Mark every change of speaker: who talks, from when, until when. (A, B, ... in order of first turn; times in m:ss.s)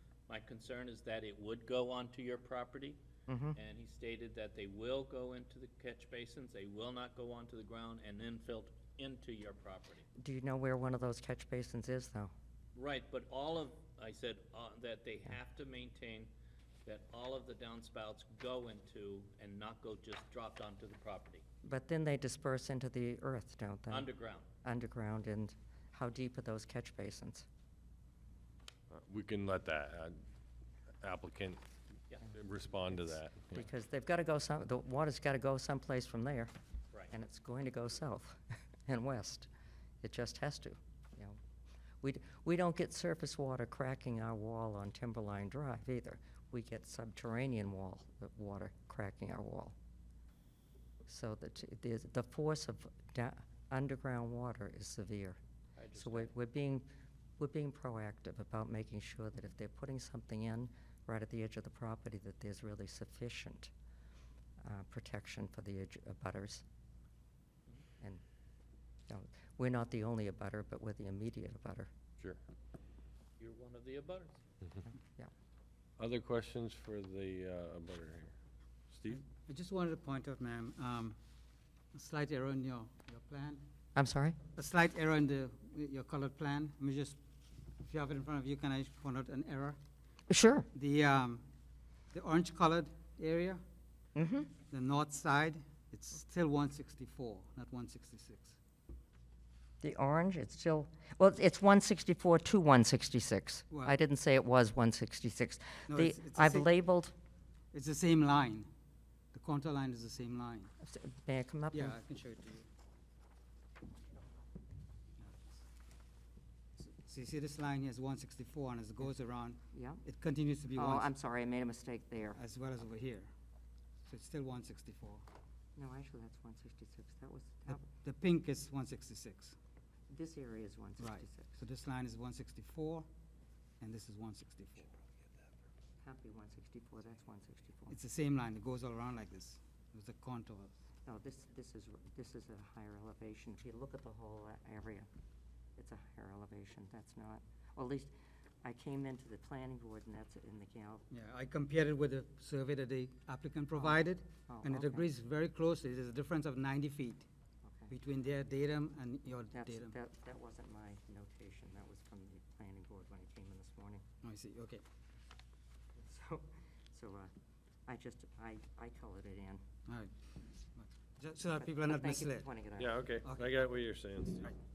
0:00.3-0:03.0 A
0:03.3-0:03.6 B
0:03.5-0:10.0 A
0:10.2-0:12.3 B
0:12.8-0:16.3 A
0:16.9-0:21.4 A
0:21.6-0:24.1 B
0:23.9-0:24.4 A
0:24.6-0:27.4 B
0:28.9-0:30.2 C
0:31.0-0:31.6 C
0:32.3-0:33.7 C
0:33.5-0:36.5 B
0:37.1-0:39.5 B
0:40.0-0:41.4 B
0:42.0-0:49.7 B
0:51.1-0:55.4 B
0:55.8-0:56.3 A
0:55.9-0:56.9 B
0:57.4-1:03.7 B
1:04.6-1:06.6 B
1:09.1-1:11.9 B
1:13.4-1:14.4 A
1:16.0-1:18.3 C
1:18.9-1:19.2 C
1:19.1-1:21.2 D
1:21.9-1:23.6 D
1:24.0-1:24.4 B
1:24.6-1:27.2 D
1:27.8-1:29.8 D
1:30.3-1:30.7 B
1:30.7-1:31.4 D
1:32.1-1:33.6 D
1:34.2-1:34.5 B
1:34.7-1:38.6 D
1:39.8-1:47.1 B
1:43.7-1:44.0 D
1:45.9-1:46.7 D
1:47.7-1:48.7 D
1:49.3-1:50.7 D
1:50.8-1:52.0 B
1:51.7-1:52.7 D
1:55.2-1:55.6 D
1:56.8-2:01.1 D
1:59.7-2:00.0 B
2:00.7-2:02.4 B
2:02.4-2:03.3 D
2:04.1-2:05.2 D
2:05.8-2:07.9 B
2:07.7-2:09.6 D
2:10.1-2:11.6 B
2:11.0-2:13.1 D
2:13.8-2:14.9 D
2:16.0-2:18.0 B
2:17.9-2:20.7 D
2:21.1-2:25.1 B
2:25.8-2:31.1 B
2:31.1-2:37.3 D
2:33.8-2:35.1 B
2:37.6-2:37.9 B
2:37.9-2:39.9 D
2:39.5-2:44.0 B
2:44.2-2:44.8 D
2:46.0-2:47.3 B
2:47.8-2:49.6 B
2:49.9-2:52.5 D
2:51.6-2:52.9 B
2:52.8-2:54.5 C
2:53.2-2:53.6 D